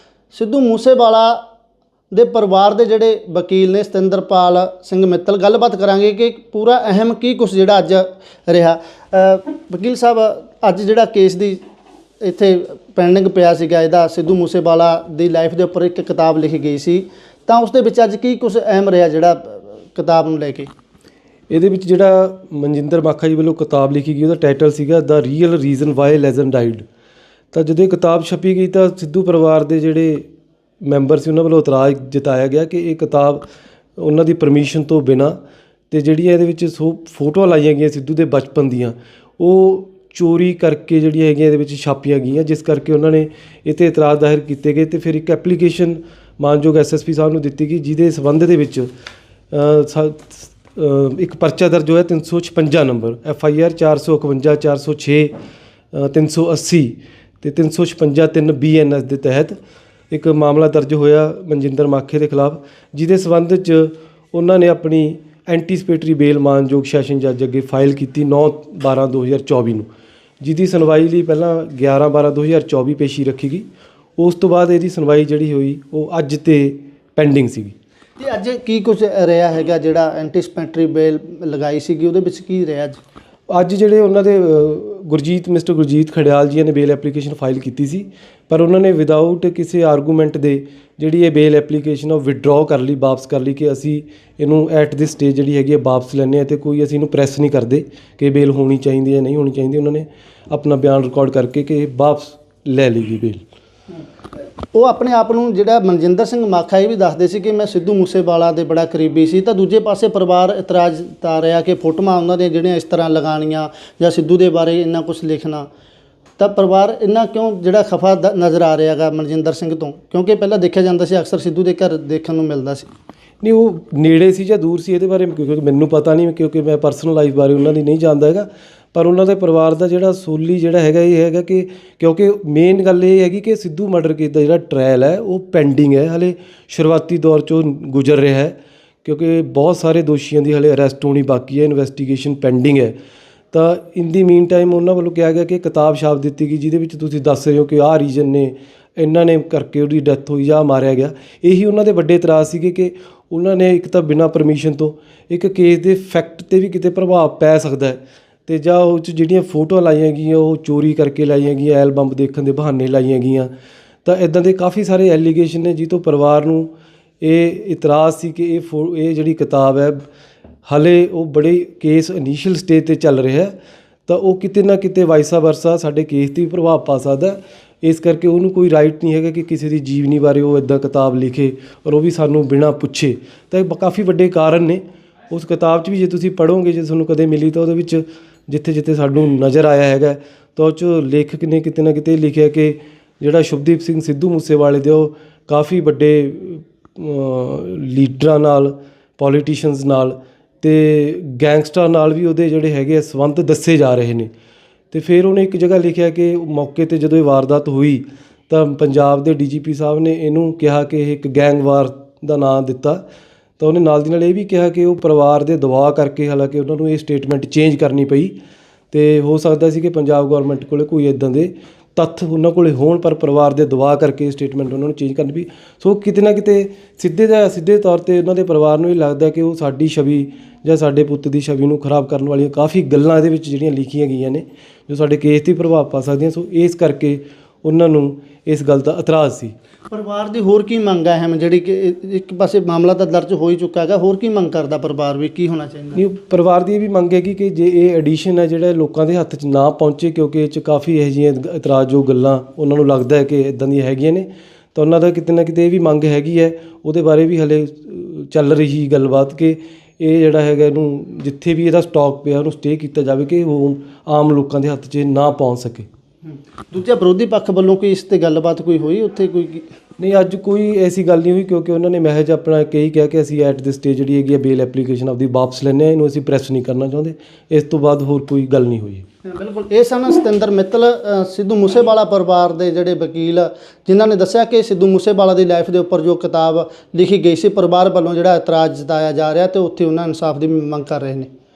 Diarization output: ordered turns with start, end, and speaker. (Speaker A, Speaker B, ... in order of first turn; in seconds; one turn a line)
Speaker A: 0.3-1.4
Speaker A: 2.1-11.6
Speaker A: 12.2-20.7
Speaker B: 21.5-26.8
Speaker B: 27.5-30.2
Speaker B: 30.8-33.4
Speaker B: 34.0-35.4
Speaker B: 35.9-48.9
Speaker B: 49.5-55.3
Speaker B: 55.9-59.5
Speaker B: 60.1-69.9
Speaker B: 70.4-73.7
Speaker B: 74.2-77.7
Speaker A: 78.2-83.0
Speaker B: 83.5-103.4
Speaker A: 104.7-115.7
Speaker A: 116.4-122.9
Speaker B: 123.4-142.9
Speaker B: 143.5-163.5
Speaker B: 164.0-166.7
Speaker B: 167.2-170.0
Speaker B: 170.7-173.5
Speaker B: 174.1-204.3
Speaker B: 204.9-213.0
Speaker B: 213.6-218.3
Speaker B: 218.9-239.5
Speaker A: 239.9-246.0
Speaker B: 245.9-265.9
Speaker A: 266.2-269.7
Speaker B: 270.0-279.0
Speaker A: 279.2-291.3